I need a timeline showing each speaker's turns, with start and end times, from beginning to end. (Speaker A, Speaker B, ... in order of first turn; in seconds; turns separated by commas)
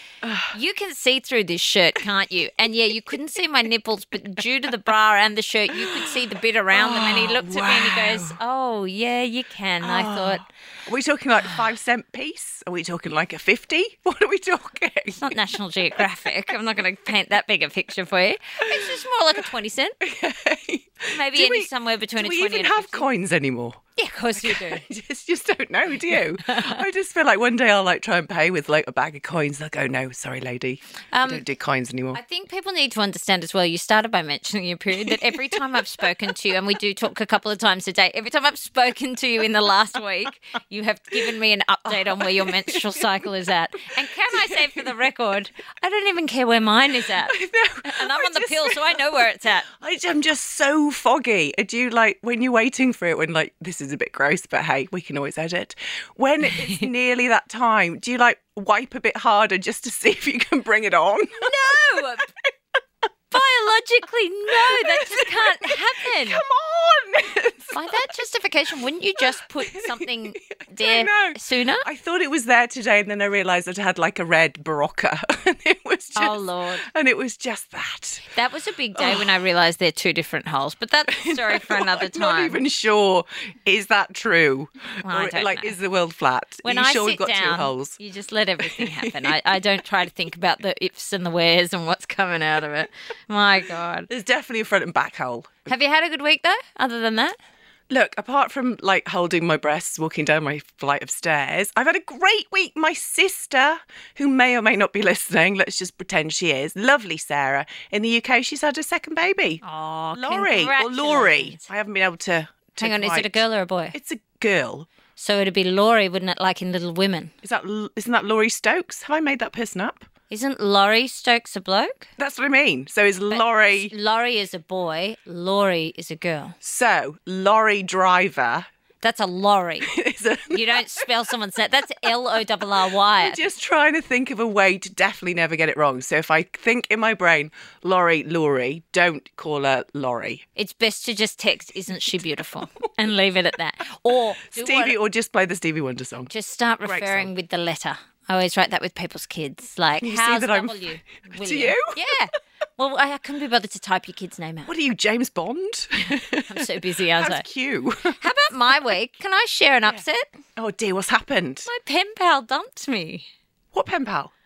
Speaker A: 0.2-0.5, Speaker B: 0.5-10.4, Speaker A: 5.8-6.2, Speaker A: 6.7-8.4, Speaker A: 9.8-15.4, Speaker B: 15.2-20.0, Speaker A: 18.7-19.0, Speaker A: 20.0-23.8, Speaker B: 21.1-23.1, Speaker B: 24.0-24.8, Speaker A: 24.4-32.2, Speaker B: 26.4-26.8, Speaker B: 31.1-31.4, Speaker B: 32.1-49.7, Speaker A: 35.1-35.6, Speaker A: 41.9-43.2, Speaker A: 44.3-44.9, Speaker A: 47.3-61.9, Speaker B: 61.4-62.3, Speaker B: 63.3-66.4, Speaker A: 64.5-67.8, Speaker B: 67.7-71.8, Speaker A: 69.7-78.3, Speaker B: 76.2-76.9, Speaker B: 78.3-82.6, Speaker A: 79.0-79.3, Speaker A: 81.1-88.0, Speaker B: 85.0-85.7, Speaker B: 86.6-94.1, Speaker A: 88.6-89.4, Speaker A: 94.1-95.7, Speaker B: 95.7-97.4, Speaker A: 97.9-109.6, Speaker B: 109.6-111.7, Speaker A: 110.1-113.4, Speaker B: 112.8-114.0, Speaker A: 113.9-114.9, Speaker B: 115.2-117.3, Speaker A: 117.4-120.1, Speaker B: 120.3-122.1, Speaker A: 122.2-123.9, Speaker B: 123.3-126.5, Speaker A: 126.6-128.7, Speaker B: 129.0-129.9, Speaker A: 129.8-131.1, Speaker B: 130.5-133.4, Speaker A: 133.2-140.4, Speaker B: 140.6-144.9, Speaker A: 144.5-146.3, Speaker B: 146.3-154.7, Speaker A: 146.8-147.3, Speaker A: 150.0-152.0, Speaker A: 154.7-158.2, Speaker B: 156.5-157.4, Speaker B: 158.2-160.3, Speaker A: 160.6-161.7, Speaker B: 161.7-163.3, Speaker A: 163.7-164.3